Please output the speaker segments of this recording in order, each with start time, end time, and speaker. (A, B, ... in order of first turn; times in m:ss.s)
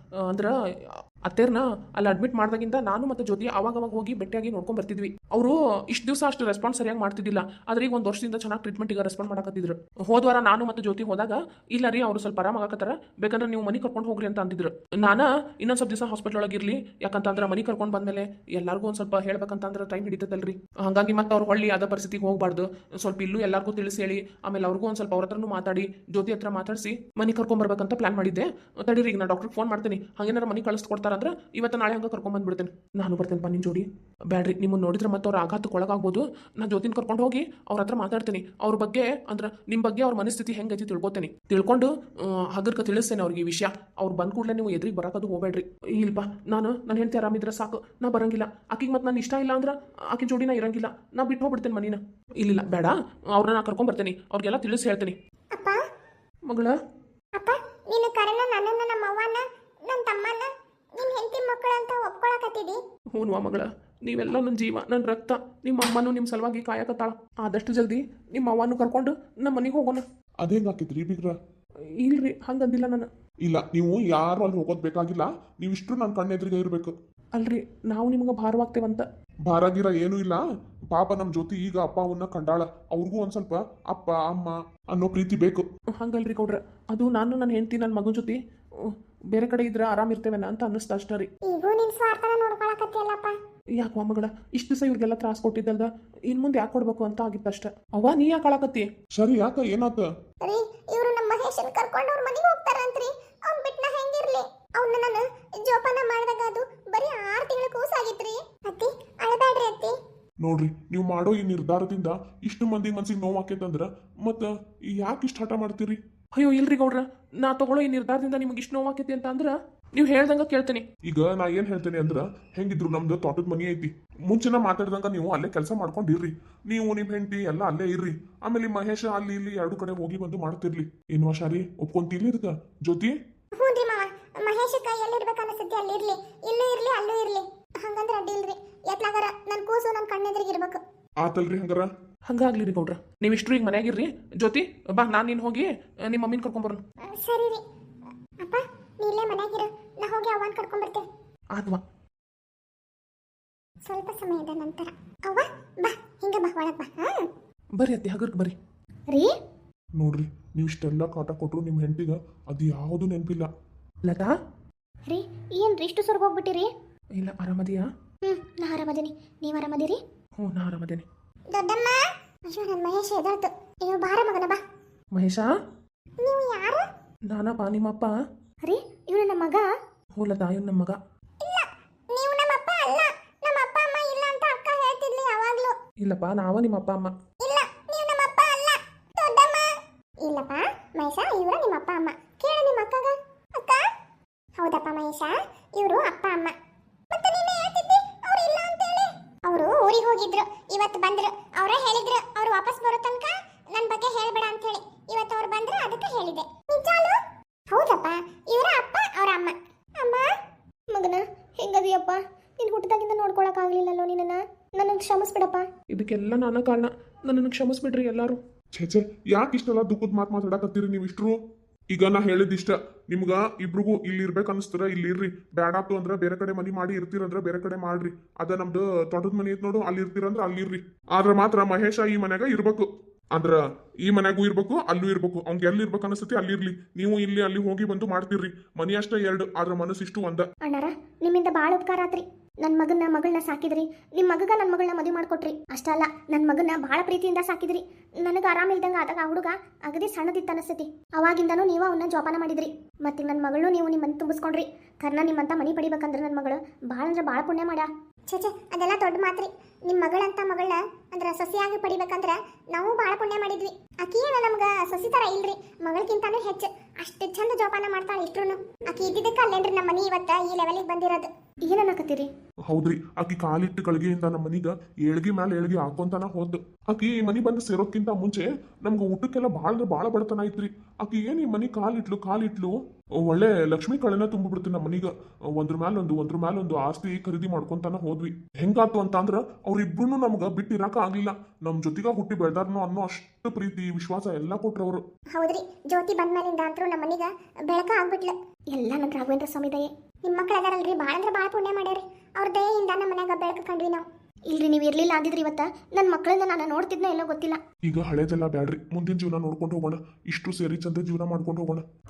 0:00.2-0:55.2 A
0:55.5-0:55.8 B
0:56.5-0:56.8 A
0:57.4-1:02.8 B
1:03.2-1:10.0 A
1:10.4-1:11.4 C
1:12.0-1:13.1 A
1:13.4-1:16.9 C
1:17.4-1:19.0 A
1:19.5-1:20.4 C
1:20.9-1:25.6 C
1:26.0-1:31.3 A
1:31.5-1:33.4 B
1:33.8-1:38.9 A
1:39.2-1:40.1 C
1:40.4-1:50.0 B
1:50.4-1:56.0 C
1:56.4-2:00.8 A
2:01.0-2:13.2 C
2:13.6-2:20.8 B
2:21.2-2:21.9 C
2:22.3-2:26.8 A
2:27.0-2:27.6 B
2:28.4-2:31.0 B
2:31.6-2:31.8 A
2:33.8-2:37.3 B
2:37.8-2:38.5 A
2:40.0-2:43.5 C
2:44.0-2:44.3 A
2:45.1-2:46.7 B
2:47.2-2:47.8 A
2:48.3-2:50.0 B
2:50.4-2:51.0 A
2:51.5-2:54.6 B
2:55.2-2:55.5 A
2:56.2-2:56.8 B
2:57.3-2:58.1 A
2:58.7-2:59.6 B
3:00.2-3:01.0 A
3:01.4-3:05.7 B
3:06.0-3:07.1 A
3:07.4-3:09.7 B
3:10.2-3:13.8 B
3:14.6-3:16.6 B
3:17.1-3:27.2 B
3:27.7-3:30.3 B
3:30.9-3:35.7 B
3:35.9-3:38.4 A
3:38.8-3:41.4 C
3:41.9-4:00.5 C
4:00.7-4:32.3 B
4:32.7-4:55.0 C
4:55.4-5:07.6 B
5:07.8-5:11.8 C